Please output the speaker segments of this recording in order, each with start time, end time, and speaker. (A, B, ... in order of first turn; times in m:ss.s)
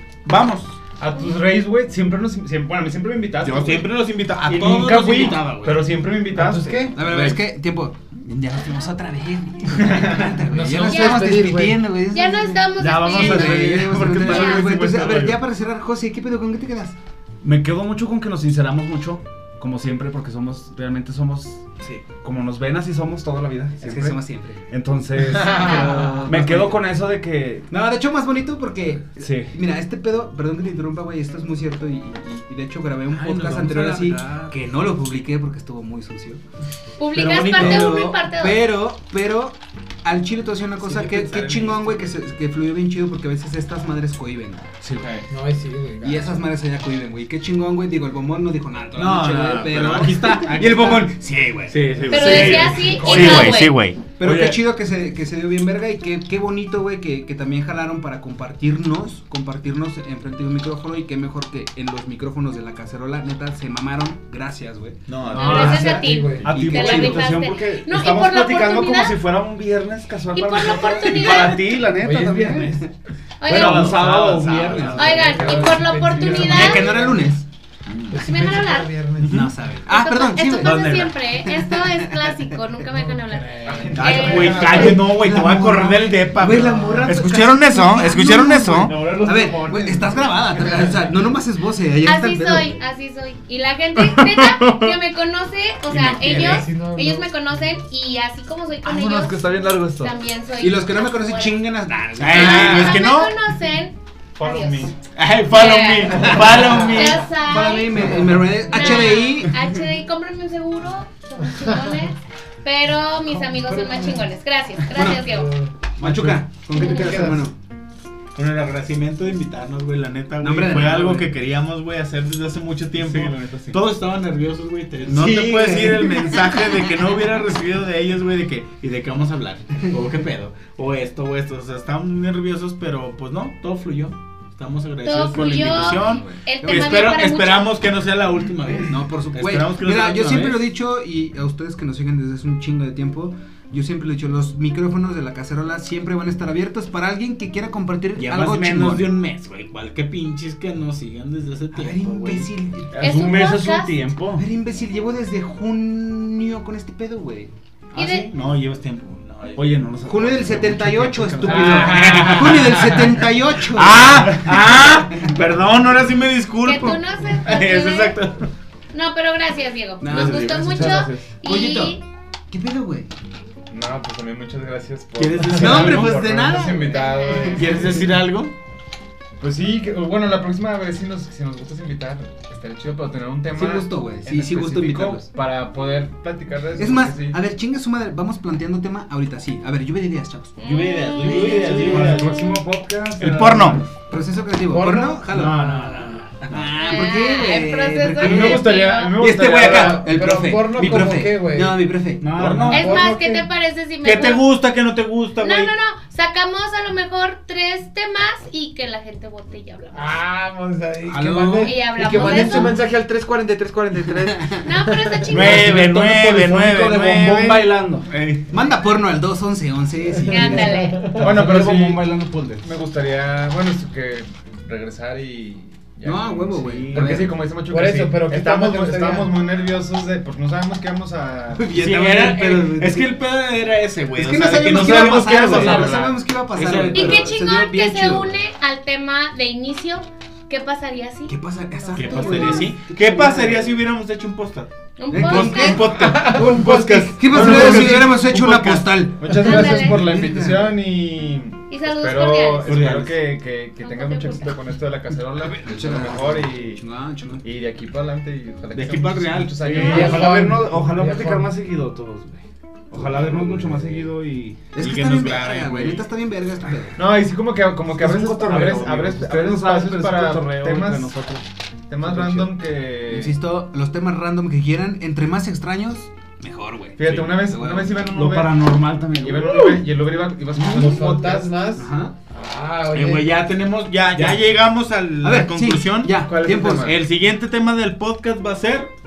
0:00.2-0:00.8 A
0:01.0-0:07.0 B
0:03.4-0:05.9 A
0:06.3-0:07.0 C
0:06.9-0:17.0 D
0:09.9-0:10.2 B
0:10.4-0:11.8 C
0:10.9-0:11.3 E
0:12.1-0:14.7 E
0:12.8-0:15.4 B
0:17.4-0:27.7 F
0:23.8-0:24.7 D
0:25.3-0:26.2 B
0:25.4-0:26.8 D
0:25.6-0:25.9 E
0:25.7-0:26.2 C
0:27.7-0:36.4 D
0:29.2-0:29.5 F
0:33.1-0:34.5 A
0:37.0-0:38.6 E
0:37.2-0:37.9 A
0:37.3-0:44.7 D
0:40.8-0:42.1 A
0:44.9-0:45.2 A
0:45.3-0:46.4 C
0:46.0-0:53.6 D
0:49.0-0:51.1 A
0:51.7-0:54.0 A
0:51.9-0:52.9 B
0:52.1-0:53.8 E
0:52.1-0:53.3 F
0:54.2-1:07.2 D
0:54.2-0:54.6 F
1:05.1-1:06.0 A
1:05.3-1:09.2 E
1:05.3-1:12.8 F
1:05.4-1:06.6 C
1:05.9-1:07.1 B
1:10.3-1:11.8 E
1:10.8-1:12.9 D
1:12.0-1:12.8 C
1:13.4-1:13.9 E
1:13.4-1:15.8 F
1:13.5-1:15.0 A
1:13.5-1:15.6 B
1:14.7-1:15.0 D
1:14.9-1:16.9 E
1:15.0-1:17.3 C
1:16.2-1:17.4 D
1:17.9-1:18.2 A
1:18.1-1:19.5 C
1:18.1-1:18.9 E
1:19.2-1:19.5 A
1:19.2-1:22.6 D
1:19.9-1:24.6 E
1:20.6-1:21.1 A
1:22.9-1:24.9 C
1:23.6-1:25.3 B
1:23.9-1:29.0 A
1:24.5-1:32.8 D
1:28.6-1:31.0 B
1:32.0-1:41.6 E
1:36.2-1:37.3 C
1:36.2-1:36.6 D
1:38.8-1:40.1 F
1:40.6-1:43.0 D
1:42.2-1:43.4 A
1:42.3-1:44.9 E
1:44.4-1:45.0 B
1:45.0-1:47.3 A
1:45.5-1:55.5 E
1:46.1-1:49.7 D
1:51.6-1:52.0 C
1:53.3-1:54.2 C
1:54.9-1:55.9 C
1:54.9-1:55.2 D
1:56.0-1:57.5 D
1:56.1-1:56.4 F
1:56.7-1:57.5 C
1:56.8-1:57.0 E
1:56.8-1:57.3 A
1:58.3-2:20.6 A
2:00.4-2:01.3 D
2:03.0-2:03.8 F
2:05.1-2:06.9 D
2:05.5-2:06.3 C
2:15.0-2:17.8 E
2:15.4-2:17.1 D
2:18.7-2:29.2 D
2:28.2-2:32.5 A
2:31.7-2:33.4 D
2:32.9-2:34.4 F
2:33.0-2:34.0 E
2:34.4-2:37.5 D
2:37.9-2:39.8 A
2:37.9-2:38.3 E
2:39.6-2:43.2 F
2:40.1-2:45.4 D
2:41.5-2:42.6 A
2:42.0-2:42.3 B
2:43.6-2:48.5 A
2:46.6-2:48.2 E
2:48.9-2:52.0 E
2:50.0-2:53.1 D
2:50.0-2:50.9 A
2:50.6-2:51.2 F
2:53.7-2:58.2 B
2:55.2-2:56.3 A
2:55.5-2:58.0 D
2:56.9-2:57.8 E
2:57.5-2:58.5 A
2:59.4-3:07.4 B
3:03.5-3:05.3 D
3:06.8-3:10.6 D
3:10.6-3:12.4 E
3:10.6-3:12.4 A
3:11.2-3:12.2 D
3:11.7-3:13.8 F
3:13.2-3:13.8 A
3:14.1-3:15.7 D
3:14.7-3:16.4 C
3:15.3-3:16.0 A
3:16.4-3:22.3 D
3:16.8-3:19.2 E
3:18.2-3:20.2 B
3:19.5-3:21.9 C
3:22.3-3:22.7 A
3:22.3-3:23.1 F
3:22.6-3:23.5 C
3:22.7-3:24.4 E
3:24.0-3:25.7 A
3:25.4-3:30.1 E
3:29.9-3:35.5 C
3:31.0-3:32.7 D
3:31.6-3:32.7 E
3:34.6-3:35.8 E
3:35.3-3:38.5 A
3:35.4-3:38.1 F
3:38.5-3:40.9 D
3:40.2-3:41.2 C
3:40.3-3:41.0 E
3:41.2-3:42.7 F
3:41.2-3:51.8 B
3:46.0-3:47.3 D
3:46.5-3:47.2 A
3:47.7-3:49.4 C
3:51.5-3:53.1 D
3:51.7-3:56.0 A
3:54.2-3:58.4 D
3:54.6-3:56.2 B
3:56.6-3:57.4 A
3:56.9-4:02.6 E
4:01.3-4:03.8 D
4:01.9-4:09.1 A
4:05.0-4:05.9 E
4:05.1-4:06.4 D
4:05.9-4:07.6 C
4:07.2-4:10.7 D
4:07.3-4:08.0 B
4:09.2-4:16.8 B
4:09.3-4:10.0 E
4:11.7-4:12.9 E
4:12.6-4:13.2 A
4:13.8-4:14.5 E
4:15.6-4:17.4 D
4:17.4-4:20.3 B
4:18.7-4:20.2 A
4:19.6-4:24.6 F
4:19.7-4:21.5 C
4:24.7-4:27.0 D
4:24.8-4:26.1 A
4:27.0-4:31.1 B
4:27.9-4:31.4 F
4:31.9-4:33.4 B
4:32.0-4:32.5 F
4:33.1-4:38.0 D
4:37.0-4:38.5 B
4:38.1-4:39.7 F
4:39.2-4:41.5 B
4:40.6-4:41.0 D
4:40.6-4:43.4 C
4:41.7-4:42.1 D
4:42.9-4:48.9 A
4:44.1-4:44.4 F
4:45.2-4:47.0 D
4:46.3-4:46.9 B